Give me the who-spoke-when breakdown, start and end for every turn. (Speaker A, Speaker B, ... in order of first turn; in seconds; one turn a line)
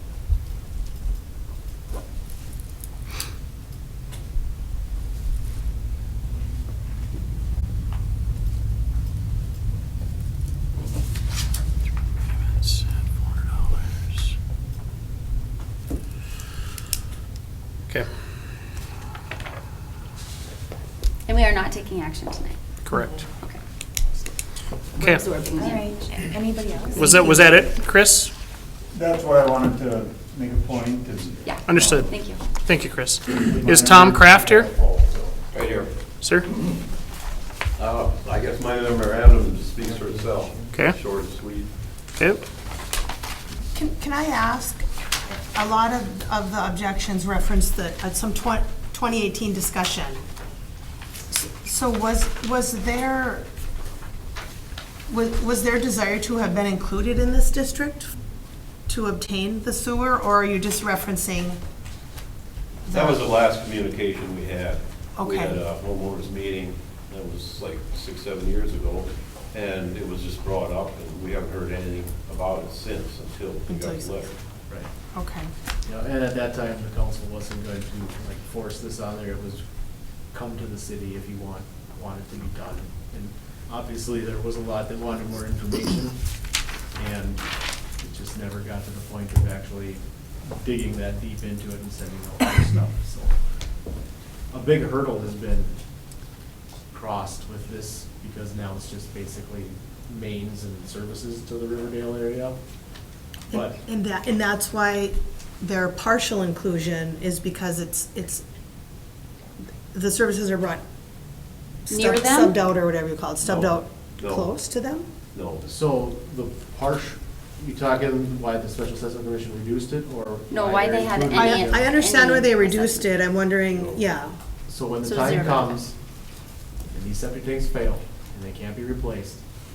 Speaker A: 21.3-22.6
Speaker B: 22.9-23.1
Speaker A: 24.9-26.4
Speaker C: 25.6-27.7
Speaker B: 26.9-28.3
Speaker D: 28.9-32.1
Speaker A: 31.4-32.4
Speaker B: 31.7-34.7
Speaker D: 33.3-35.4
Speaker E: 35.5-35.9
Speaker E: 37.8-41.7
Speaker D: 39.9-40.5
Speaker F: 43.7-50.2
Speaker F: 51.3-53.5
Speaker F: 55.1-58.1
Speaker F: 58.9-61.6
Speaker F: 62.9-63.2
Speaker E: 62.9-74.3
Speaker F: 65.2-65.6
Speaker F: 73.7-74.1
Speaker F: 75.1-75.5
Speaker G: 75.8-79.6
Speaker G: 80.3-86.2
Speaker G: 86.9-87.4
Speaker G: 88.0-93.3
Speaker G: 94.5-95.8
Speaker G: 96.9-102.6
Speaker F: 103.5-108.4
Speaker F: 109.9-110.8
Speaker F: 111.8-115.1
Speaker A: 111.9-112.6
Speaker E: 113.4-114.5
Speaker E: 115.3-115.7
Speaker G: 115.6-121.8
Speaker A: 120.5-123.1
Speaker F: 121.3-124.3
Speaker G: 124.7-125.9
Speaker A: 125.0-125.8
Speaker G: 126.9-129.4